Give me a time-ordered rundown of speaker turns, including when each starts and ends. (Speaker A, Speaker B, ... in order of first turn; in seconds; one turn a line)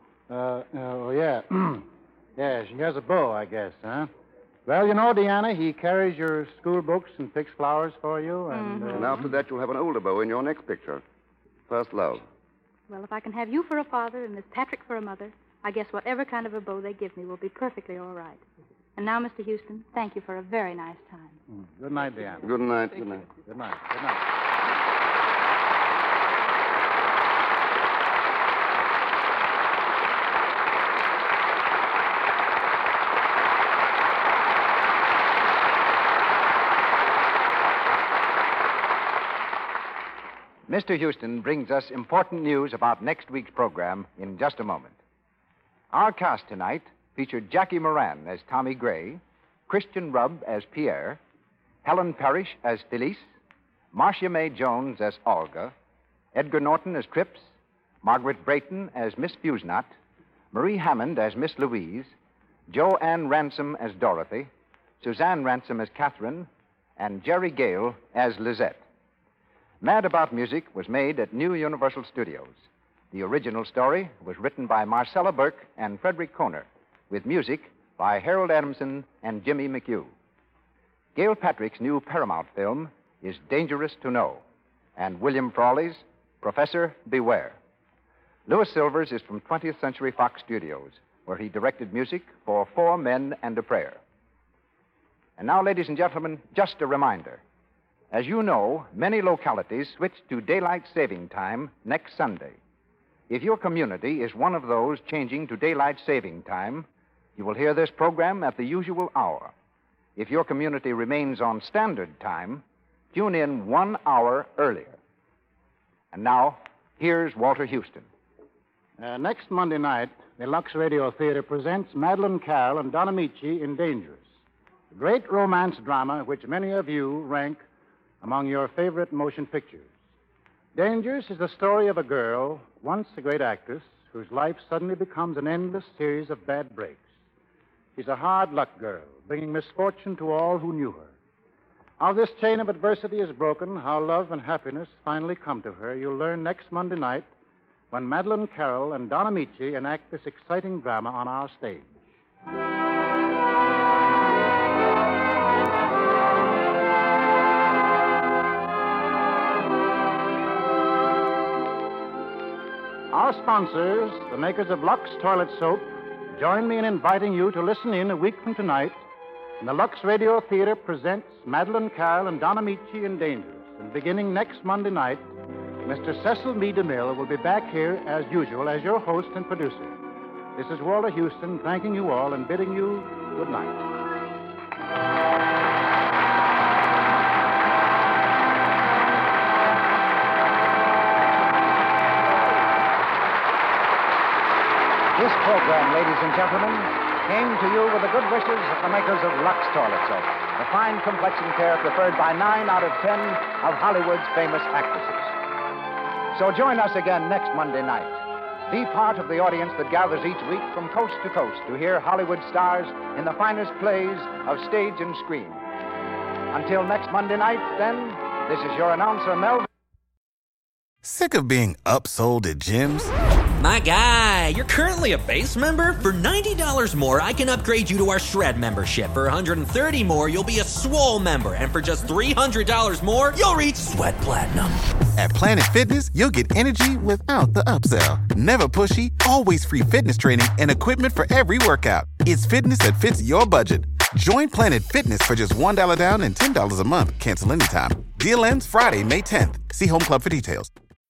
Speaker A: 0.3-1.9
Speaker A: 2.4-4.1
Speaker A: 4.7-9.3
Speaker B: 8.5-9.2
Speaker C: 8.9-11.0
Speaker C: 11.7-12.2
Speaker B: 12.9-18.4
Speaker B: 19.0-21.4
Speaker A: 21.5-22.5
Speaker C: 22.4-23.3
Speaker A: 23.4-24.2
Speaker D: 40.7-45.0
Speaker D: 45.9-51.2
Speaker D: 51.8-53.3
Speaker D: 53.9-55.7
Speaker D: 56.3-57.5
Speaker D: 58.0-59.9
Speaker D: 60.5-62.1
Speaker D: 62.7-64.5
Speaker D: 65.0-68.8
Speaker D: 69.8-80.1
Speaker D: 81.2-84.4
Speaker D: 85.0-87.6
Speaker D: 88.5-94.0
Speaker D: 95.4-97.4
Speaker D: 98.1-102.6
Speaker D: 103.3-109.5
Speaker D: 110.2-112.6
Speaker D: 113.1-115.0
Speaker D: 116.1-118.1
Speaker A: 119.0-124.3
Speaker A: 124.9-127.6
Speaker A: 128.2-129.9
Speaker A: 130.8-137.1
Speaker A: 138.0-141.1
Speaker A: 142.0-147.3
Speaker A: 147.9-152.0
Speaker A: 163.1-169.0
Speaker A: 169.6-175.3
Speaker A: 175.8-180.0
Speaker A: 180.6-183.8
Speaker D: 195.2-205.4
Speaker D: 206.3-215.6
Speaker D: 216.5-219.7
Speaker E: 221.0-223.1
Speaker F: 223.6-234.9
Speaker E: 235.2-250.7